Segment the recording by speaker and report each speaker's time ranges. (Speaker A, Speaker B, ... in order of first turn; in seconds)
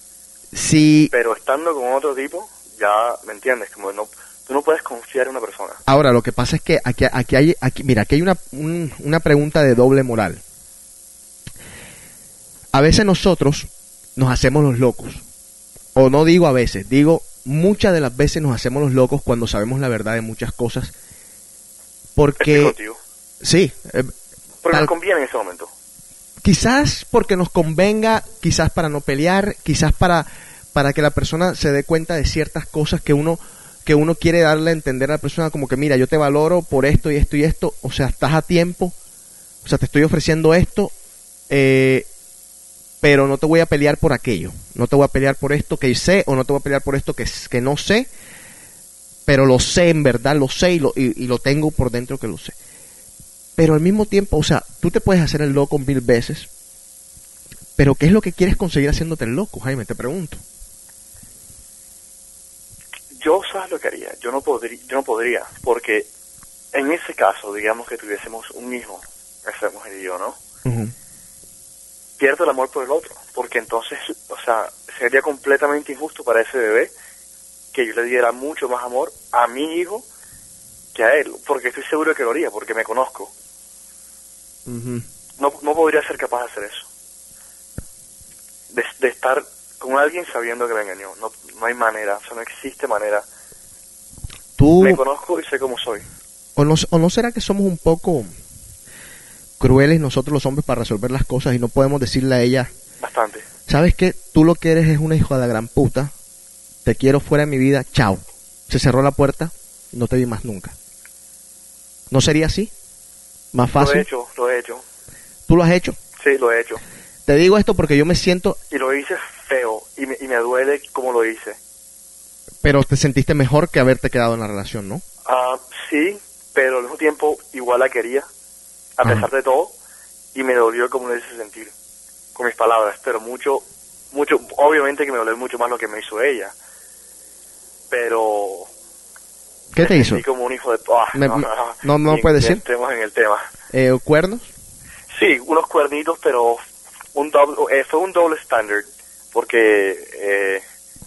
Speaker A: 0.5-1.1, 5.8-10.4, 12.7-15.2, 15.9-20.9, 22.1-22.7, 23.4-24.1, 26.4-38.9, 39.6-40.9, 41.5-42.1, 43.0-48.1, 49.2-52.5, 53.6-56.5, 57.8-60.4, 70.6-70.9, 84.7-85.0, 94.6-95.0, 96.5-98.3, 99.6-102.7, 103.7-106.1, 106.8-110.7, 112.1-112.7, 113.5-114.1, 115.5-116.0, 117.2-118.6, 122.6-125.0, 139.7-140.2, 141.1-142.6, 143.7-144.5
Speaker B: 1.1-5.8, 22.4-23.0, 24.6-25.7, 63.1-66.1, 66.7-70.3, 72.2-76.9, 77.7-80.0, 80.9-83.3, 85.4-86.8, 88.7-93.2, 94.8-96.0, 103.0-103.5, 113.7-114.8, 116.2-116.8, 118.7-121.6, 125.2-128.3, 129.0-129.7, 130.3-131.7, 132.3-136.5, 137.9-138.7, 139.8-143.5, 145.1-146.6, 147.1-150.6